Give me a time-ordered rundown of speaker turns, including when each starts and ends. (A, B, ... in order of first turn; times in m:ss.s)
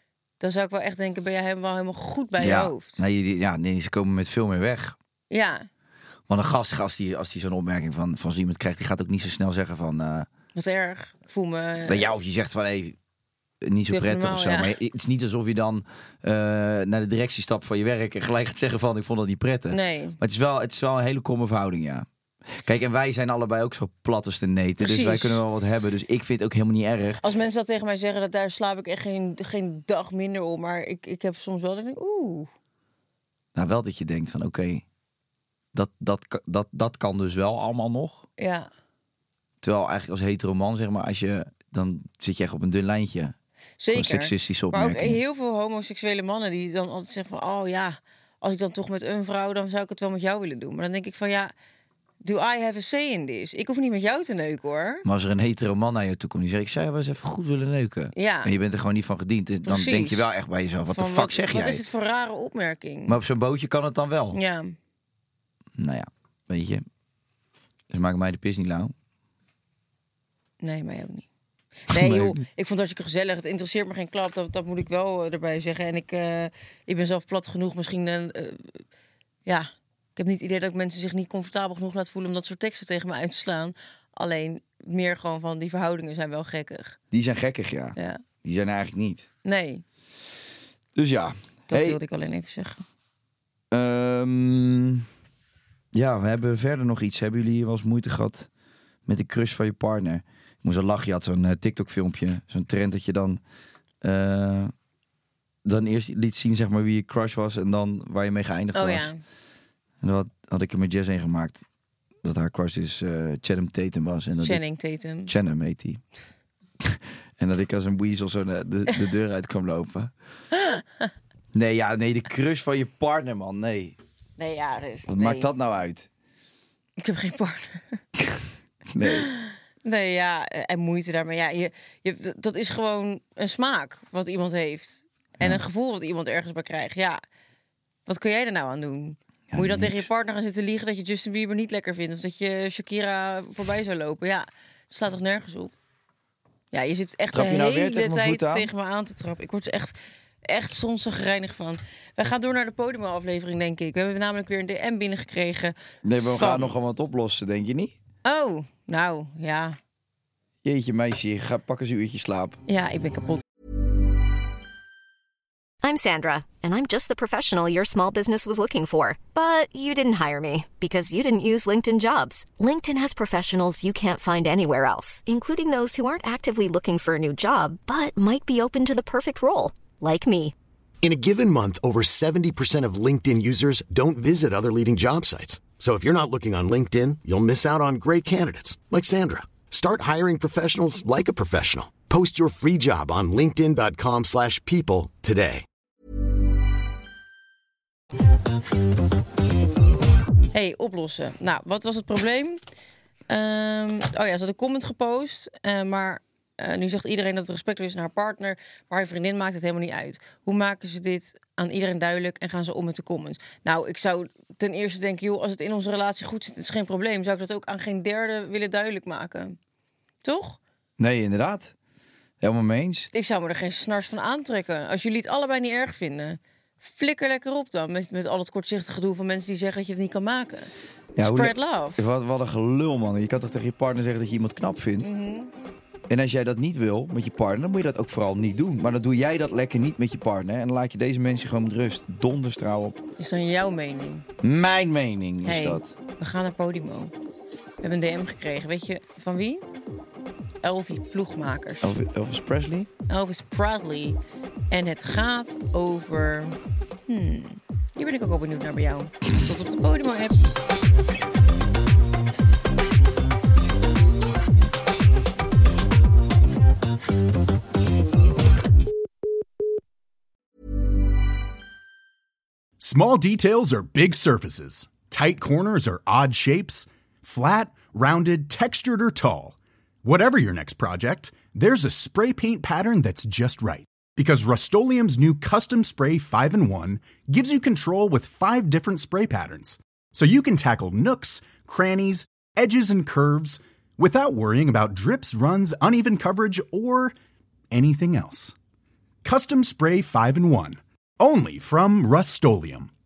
0:00.4-0:03.0 A
0:02.4-0:05.0 B
0:05.3-0:05.7 A
0:06.3-0:10.3 B
0:10.5-0:12.0 A
0:11.8-0:13.0 B
0:13.6-0:27.2 B
0:13.9-0:14.8 A
0:19.7-0:20.2 A
0:24.8-0:25.4 A
0:27.2-0:32.5 A
0:33.5-0:34.8 B
0:35.7-0:38.2 B
0:38.4-0:38.7 A
0:39.6-0:43.4 B
0:43.8-0:51.5 A
0:43.9-0:45.2 B
0:52.2-0:55.0 A
0:55.0-1:01.8 B
0:58.1-0:58.5 A
0:59.6-1:00.3 A
1:00.8-1:03.1 A
1:03.1-1:04.4 B
1:04.3-1:04.7 A
1:05.8-1:06.8 B
1:07.9-1:08.9 B
1:10.6-1:11.3 A
1:11.9-1:18.8 A
1:11.9-1:12.4 B
1:19.4-1:27.0 A
1:27.1-1:29.3 B
1:28.0-1:28.2 A
1:29.4-1:29.8 A
1:30.9-1:32.0 B
1:31.7-1:32.8 A
1:33.7-1:35.0 B
1:35.9-1:38.5 B
1:39.0-1:43.4 B
1:44.0-1:44.7 B
1:45.6-1:49.1 B
1:48.7-1:49.2 A
1:50.0-1:51.6 B
1:52.2-1:54.6 B
1:54.4-1:55.3 A
1:55.3-1:56.0 B
1:56.8-2:00.1 B
2:01.5-2:04.0 B
2:04.4-2:05.5 A
2:05.1-2:06.1 B
2:07.0-2:08.0 A
2:08.2-2:09.3 B
2:09.1-2:17.2 A
2:18.1-2:25.7 A
2:19.5-2:20.1 B
2:26.7-2:29.9 A
2:27.3-2:28.7 B
2:30.4-2:36.7 A
2:36.0-2:37.9 B
2:38.2-2:39.8 A
2:40.6-2:42.6 B
2:42.7-2:43.4 A
2:45.8-3:00.5 C
3:01.0-3:15.6 D
3:20.5-3:22.6 A
3:23.3-3:39.6 A
3:40.2-3:40.6 A
3:41.0-3:41.7 B
3:42.4-3:43.1 B
3:43.1-3:52.0 A
3:51.2-3:55.1 B
3:55.0-3:55.5 A
3:56.1-4:03.0 B
4:03.2-4:04.2 A
4:04.4-4:05.9 B
4:05.4-4:07.1 A
4:07.8-4:09.6 A
4:10.6-4:11.9 A
4:11.8-4:12.9 B
4:13.1-4:14.2 A
4:14.7-4:16.6 A
4:17.1-4:20.4 A
4:32.8-4:57.1 E
4:57.7-4:58.5 E
4:59.2-5:02.9 E